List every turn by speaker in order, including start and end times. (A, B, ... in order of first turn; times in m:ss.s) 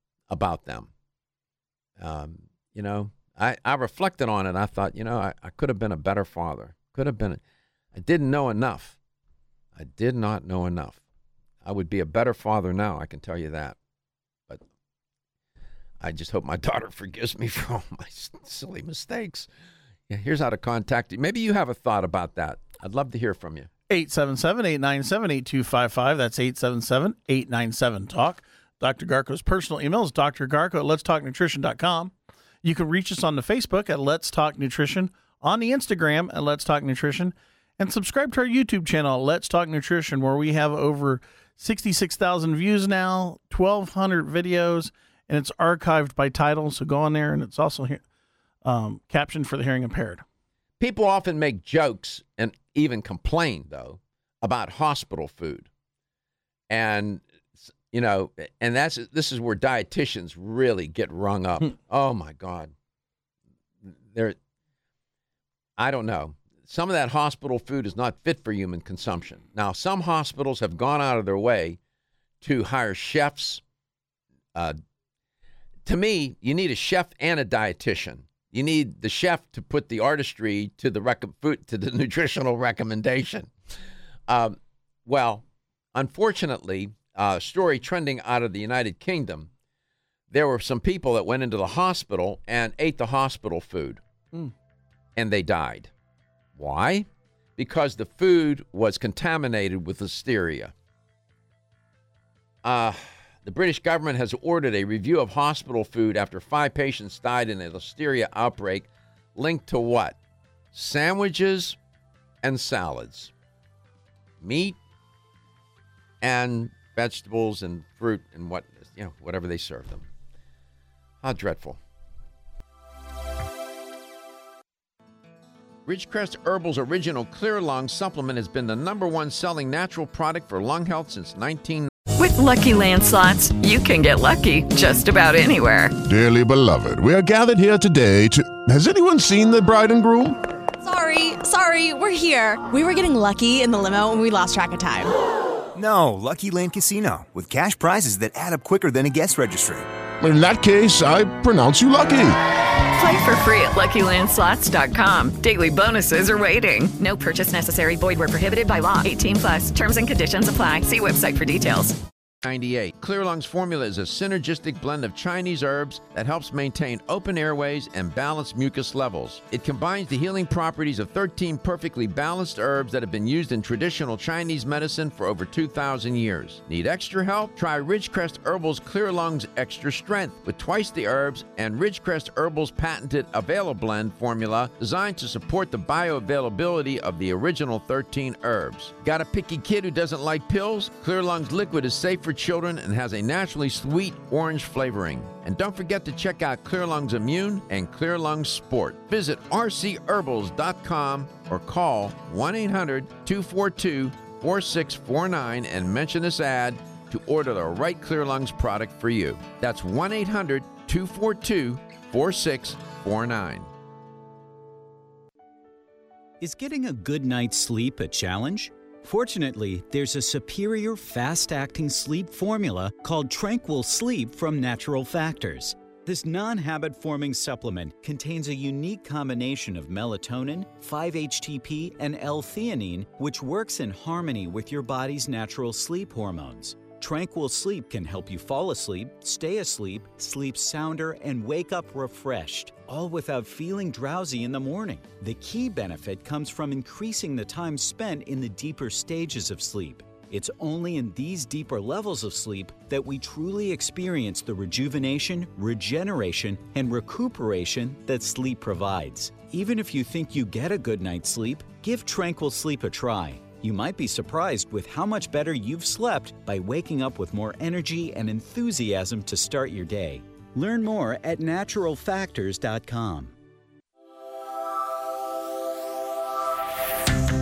0:00.3-0:00.9 A
0:02.0-0:07.4 A
0:07.9-0:09.0 A
0:09.8-0:11.0 A
0:11.6-0:13.8 A
0:16.0-0:19.5 A
0:20.1-0:23.7 A
0:23.9-0:48.0 B
0:48.6-0:50.2 B
0:50.8-0:55.7 A
0:56.7-0:57.2 A
0:57.9-1:02.7 A
1:03.8-1:04.4 A
1:05.8-1:11.8 A
1:12.4-1:13.6 A
1:15.8-1:23.5 A
1:24.3-1:29.5 A
1:30.3-1:34.0 A
1:35.2-1:35.9 A
1:36.6-1:40.7 A
1:42.6-1:50.2 A
1:50.7-1:51.8 A
1:52.4-1:53.3 A
1:54.4-1:54.8 A
1:56.2-2:00.1 A
2:01.2-2:01.8 A
2:05.9-2:11.9 A
2:12.2-2:15.9 C
2:16.1-2:20.4 D
2:20.8-2:25.1 E
2:25.8-2:29.9 F
2:30.2-2:32.4 D
2:32.9-2:42.0 C
2:42.4-3:33.7 A
3:36.4-4:33.4 G